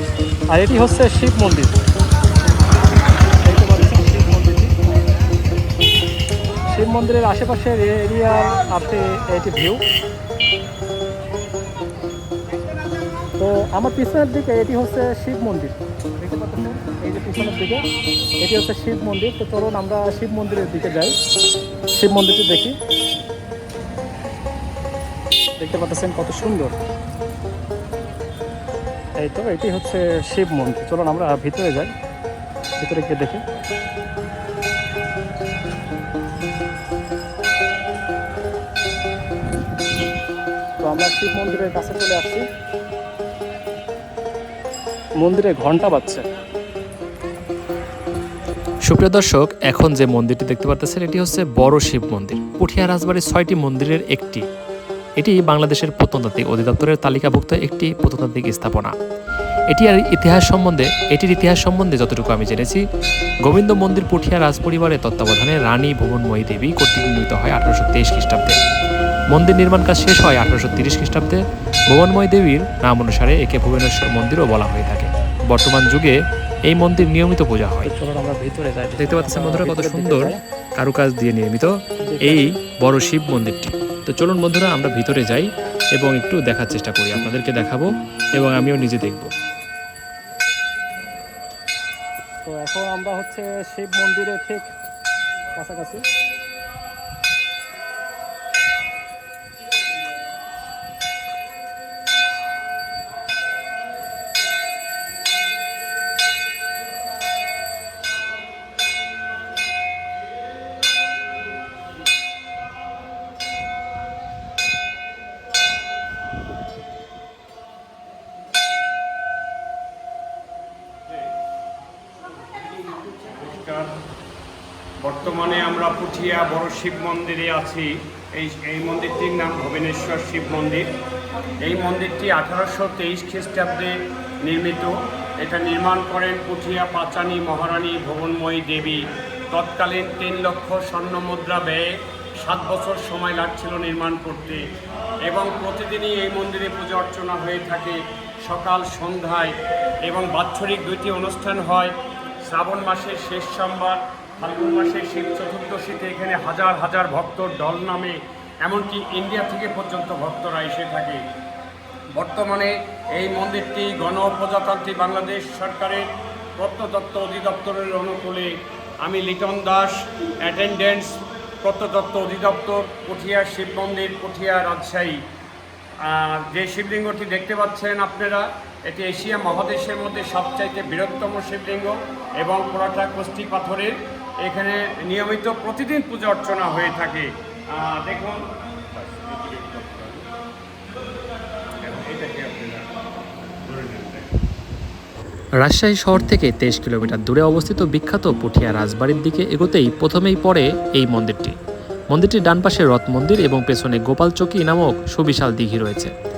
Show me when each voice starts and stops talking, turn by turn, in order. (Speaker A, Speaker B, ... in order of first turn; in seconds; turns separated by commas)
Speaker A: 0.5-1.8, Speaker A: 3.5-4.7, Speaker A: 6.7-9.8, Speaker A: 13.4-17.8, Speaker A: 18.4-21.1, Speaker A: 21.9-22.8, Speaker A: 25.6-26.7, Speaker A: 29.2-31.9, Speaker A: 32.8-33.4, Speaker A: 40.8-42.4, Speaker A: 45.2-46.2, Speaker B: 48.9-54.4, Speaker B: 55.2-58.9, Speaker B: 59.7-62.8, Speaker B: 63.5-68.6, Speaker B: 69.3-76.2, Speaker B: 76.7-77.9, Speaker A: 77.8-80.4, Speaker B: 79.0-81.7, Speaker A: 82.0-82.5, Speaker B: 82.2-89.3, Speaker A: 92.5-94.7, Speaker A: 95.6-96.0, Speaker C: 123.1-123.9, Speaker C: 125.0-130.9, Speaker C: 131.6-133.9, Speaker C: 134.5-144.6, Speaker C: 145.3-149.5, Speaker C: 150.1-151.9, Speaker C: 152.5-161.2, Speaker C: 162.2-168.5, Speaker C: 169.0-175.2, Speaker C: 176.1-183.9, Speaker C: 184.4-188.4, Speaker C: 188.9-190.3, Speaker C: 191.8-193.0, Speaker C: 193.6-194.4, Speaker B: 195.6-201.5, Speaker B: 202.1-206.1